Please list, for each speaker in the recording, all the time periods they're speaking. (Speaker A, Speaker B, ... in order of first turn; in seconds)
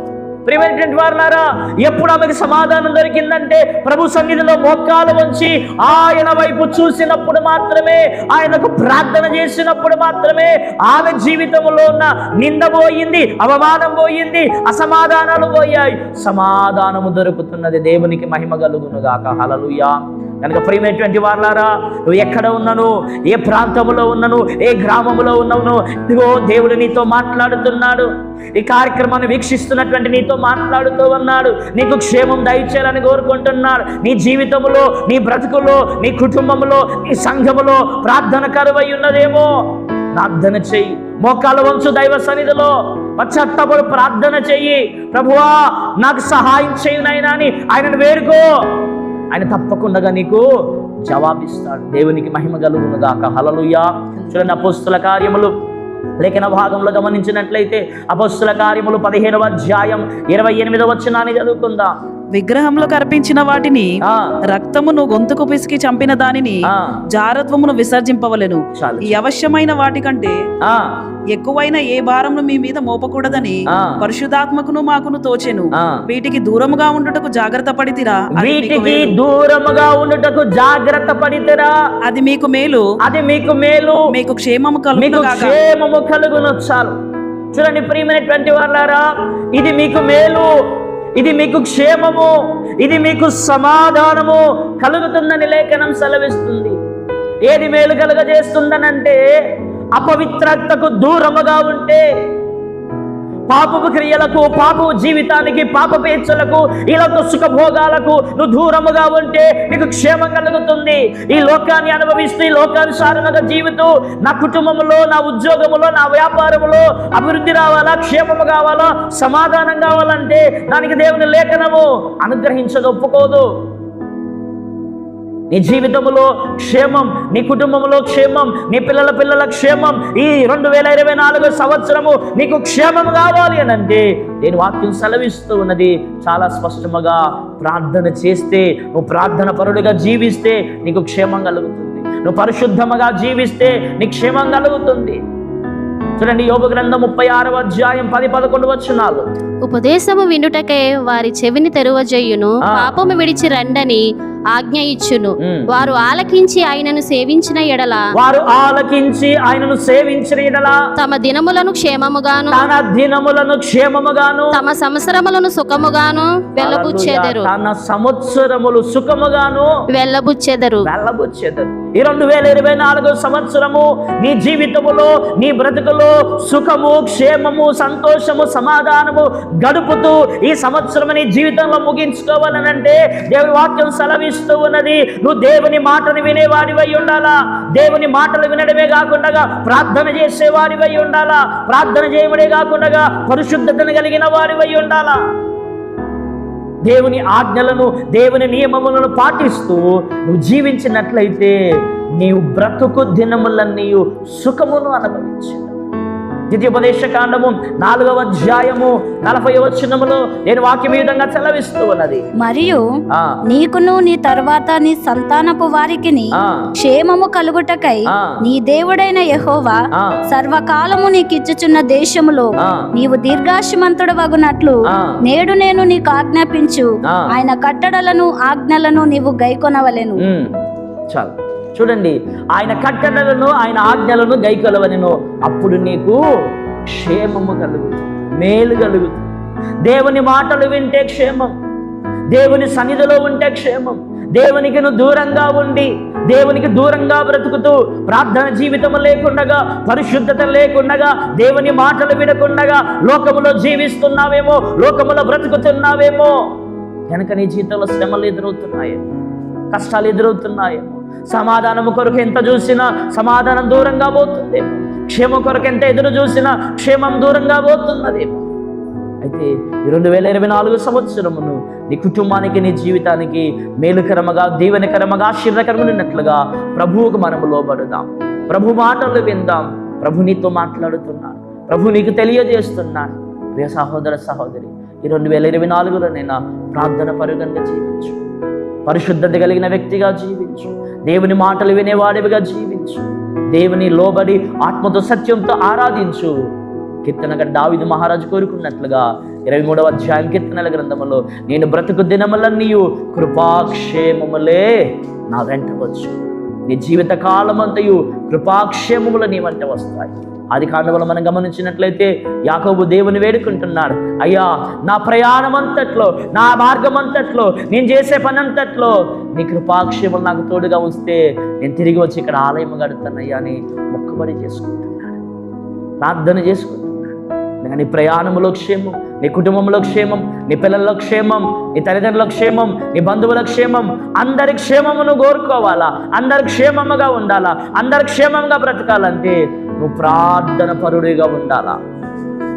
Speaker A: 0.4-39.5, 40.1-55.5, 56.2-61.9, 64.0-64.4, 66.7-67.0, 68.8-69.2, 70.6-70.9, 75.8-76.0, 78.3-81.7, 83.0-84.0, 84.9-86.9, 87.5-90.5, 91.2-96.8, 97.4-99.2, 99.9-102.0, 103.5-123.5, 125.5-145.2, 146.2-149.2, 152.6-152.9, 158.1-160.8, 162.5-164.6, 166.6-169.7, 170.8-195.2, 196.8-201.5, 202.2-205.7, 206.5-212.2, 216.4-216.6, 230.2-230.5, 231.1-236.2, 236.9-239.3, 239.8-241.5, 242.3-256.5, 257.1-259.1, 259.7-268.4, 269.2-288.2, 288.9-296.3, 297.0-325.2, 326.0-341.8
Speaker B: 62.3-64.0, 64.5-70.4, 71.3-79.1, 82.1-82.8, 84.1-85.5
Speaker C: 149.6-154.0, 154.5-158.0, 161.0-162.7, 164.5-167.5, 169.9-170.8
Speaker D: 212.4-212.8, 213.5-219.8, 220.3-230.2